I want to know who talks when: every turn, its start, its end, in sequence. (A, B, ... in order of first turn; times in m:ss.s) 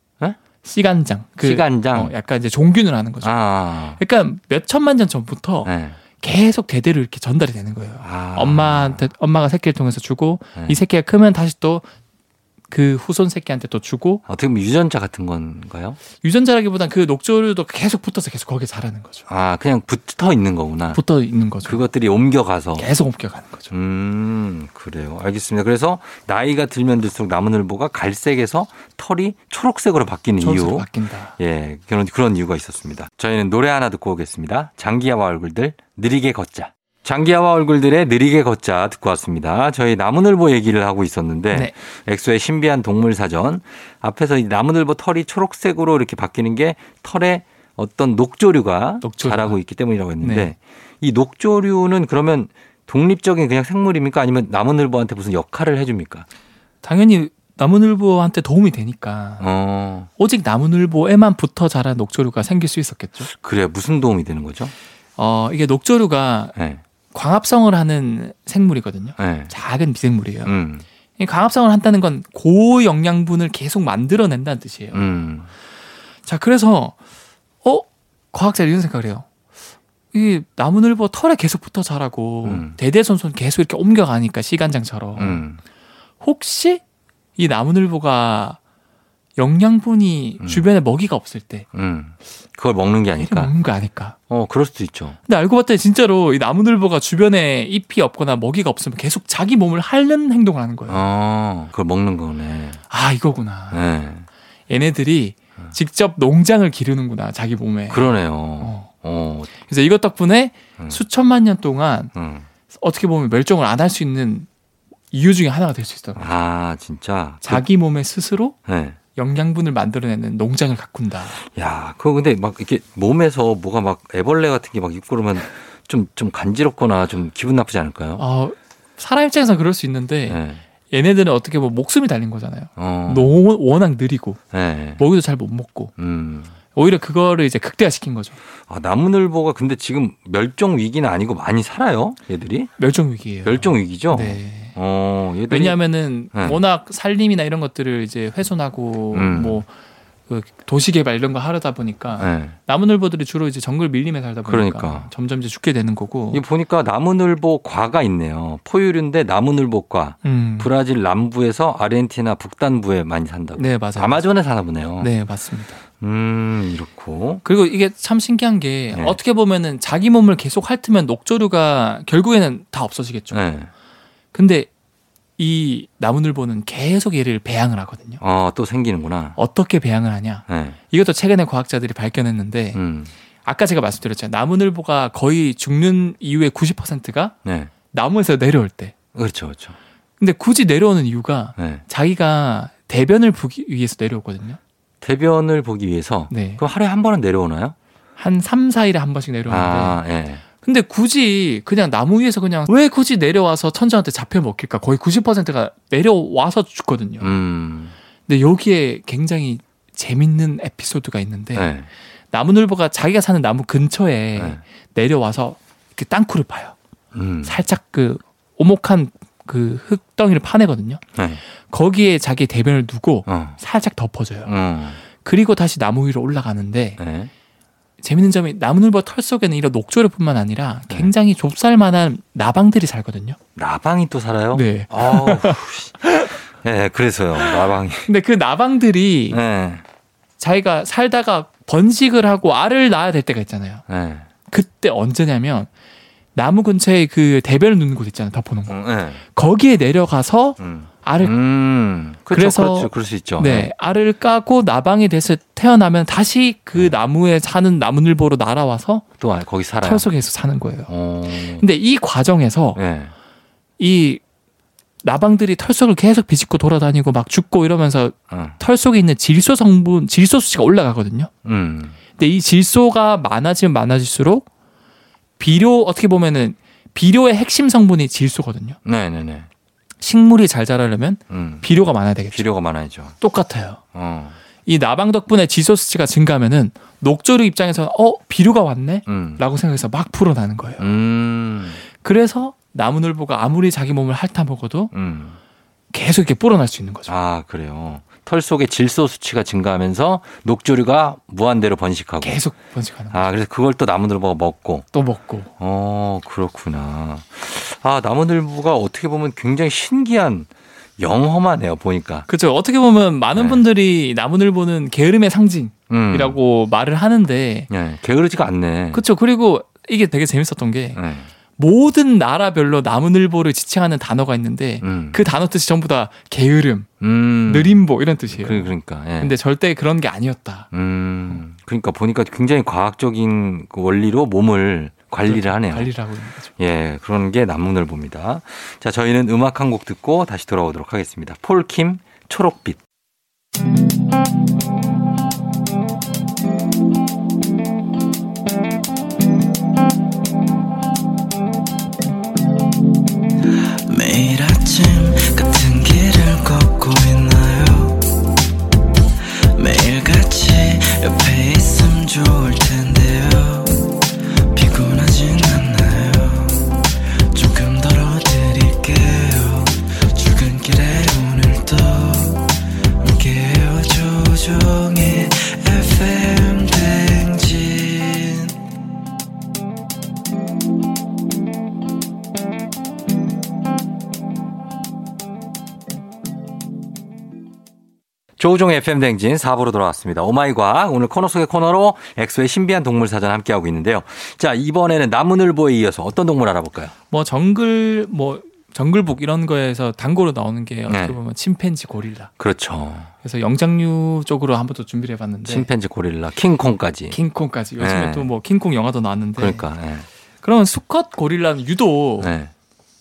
0:00.6-0:03.3 A
0:01.4-0:02.1 B
0:03.2-0:04.0 B
0:04.0-0:11.9 A
0:05.6-0:06.0 B
0:08.0-0:09.1 B
0:12.7-0:14.2 A
0:14.3-0:16.0 B
0:16.2-0:19.3 A
0:19.3-0:21.0 B
0:20.9-0:21.8 A
0:21.6-0:22.9 B
0:22.8-0:23.7 A
0:23.7-0:56.3 B
0:30.4-0:31.4 A
0:49.0-0:49.6 A
0:50.2-0:50.5 A
0:56.8-0:59.5 A
0:59.4-1:00.1 B
1:00.2-1:03.3 A
1:03.3-1:04.7 B
1:05.2-1:06.5 A
1:06.6-1:06.8 B
1:07.1-1:10.6 A
1:09.2-1:09.5 B
1:10.4-1:10.8 B
1:11.2-1:15.0 A
1:14.9-1:15.5 B
1:16.3-1:17.0 A
1:17.6-1:19.3 A
1:20.1-1:25.4 A
1:22.4-1:22.8 B
1:25.2-1:25.6 B
1:26.2-1:26.8 A
1:27.4-1:28.6 A
1:29.4-1:31.7 A
1:30.4-1:30.7 B
1:31.7-1:33.5 B
1:33.2-1:34.2 A
1:34.3-1:35.2 B
1:35.3-1:41.0 A
1:40.9-1:42.8 B
1:42.9-1:43.8 A
1:43.7-1:44.3 B
1:44.7-1:48.9 A
1:47.9-1:49.5 B
1:49.6-1:52.1 A
1:52.2-1:52.5 B
1:52.7-1:54.5 A
1:55.1-1:56.3 A
1:56.2-1:57.7 B
1:57.4-1:58.6 A
1:58.7-1:59.0 B
1:59.2-2:01.4 A
2:01.4-2:08.2 B
2:08.2-2:14.4 A
2:10.3-2:10.6 B
2:12.8-2:13.4 B
2:14.5-2:15.0 B
2:15.0-2:15.9 A
2:16.0-2:16.5 B
2:16.7-2:18.4 A
2:18.7-2:22.7 B
2:22.8-2:24.8 A
2:23.4-2:25.8 B
2:25.5-2:29.7 A
2:26.3-2:26.6 B
2:29.1-2:29.6 B
2:30.3-2:36.4 A
2:32.2-2:32.6 B
2:34.4-2:35.1 B
2:36.3-2:45.1 B
2:40.2-2:40.7 A
2:43.6-2:44.2 A
2:45.0-2:45.8 A
2:46.0-2:47.4 B
2:47.4-2:53.4 A
2:48.9-2:49.2 B
2:53.3-2:53.7 B
2:54.3-2:54.7 A
2:55.4-2:58.2 A
2:58.2-2:59.4 B
2:59.4-3:02.8 A
3:00.5-3:00.8 B
3:02.7-3:03.1 B
3:03.4-3:07.4 A
3:07.4-3:07.7 B
3:07.9-3:09.0 A
3:09.1-3:09.8 B
3:10.2-3:14.6 A
3:11.6-3:11.8 B
3:15.0-3:17.8 B
3:16.3-3:16.6 A
3:18.2-3:20.0 A
3:19.5-3:20.4 B
3:20.6-3:27.3 A
3:27.2-3:27.9 B
3:28.3-3:31.7 A
3:31.6-3:31.9 B
3:32.3-3:36.8 A
3:37.1-3:37.6 B
3:37.4-3:41.0 A
3:41.2-3:41.4 B
3:41.7-3:44.5 A
3:43.3-3:43.6 B
3:44.5-3:45.0 B
3:45.2-3:47.0 A
3:47.0-3:47.3 B
3:48.0-3:53.4 A
3:53.6-3:58.1 B
3:54.5-3:56.4 A
3:57.4-3:59.4 A
3:59.3-3:59.8 B
4:00.4-4:03.8 A
4:03.9-4:04.3 B
4:04.5-4:05.7 A
4:06.4-4:11.3 A
4:08.7-4:09.2 B
4:10.6-4:13.7 B
4:12.3-4:19.0 A
4:19.2-4:20.1 B
4:19.8-4:20.9 A
4:20.9-4:21.6 B
4:21.4-4:22.8 A
4:22.8-4:23.1 B
4:23.8-4:24.2 A
4:25.0-4:31.3 A
4:28.3-4:28.6 B
4:31.4-4:32.0 B
4:32.2-4:34.5 A
4:35.4-4:38.8 A
4:38.8-4:39.5 B
4:40.0-4:42.4 A
4:41.3-4:41.6 B
4:42.3-4:43.2 B
4:43.2-4:43.8 A
4:43.9-4:44.4 B
4:44.6-4:50.9 A
4:49.1-4:49.4 B
4:50.8-4:51.8 B
4:51.9-4:54.9 A
4:54.9-4:55.4 B
4:55.9-4:57.1 A
4:57.1-5:02.4 B
5:02.2-5:03.3 A
5:03.1-5:04.9 B
5:04.9-5:05.5 A
5:05.6-5:12.3 B
5:12.3-5:17.7 A
5:13.4-5:13.6 B
5:15.9-5:16.4 B
5:17.7-5:19.0 B
5:18.9-5:21.0 A
5:21.0-5:21.3 B
5:21.6-5:26.9 A
5:24.8-5:25.2 B
5:27.0-5:27.8 B
5:27.4-5:30.7 A
5:28.3-5:29.4 B
5:30.7-5:35.9 B
5:35.2-5:36.5 A
5:36.6-5:42.8 B
5:53.9-5:58.4 C
5:59.5-6:18.6 C
6:28.4-6:36.9 B
6:37.1-6:42.3 A
6:40.9-6:41.2 B
6:42.4-6:43.1 B
6:43.2-6:45.7 A
6:45.4-6:47.2 B
6:47.1-6:49.7 A
6:47.8-6:48.3 B
6:49.4-6:50.1 B
6:50.4-6:52.3 A
6:52.2-6:52.5 B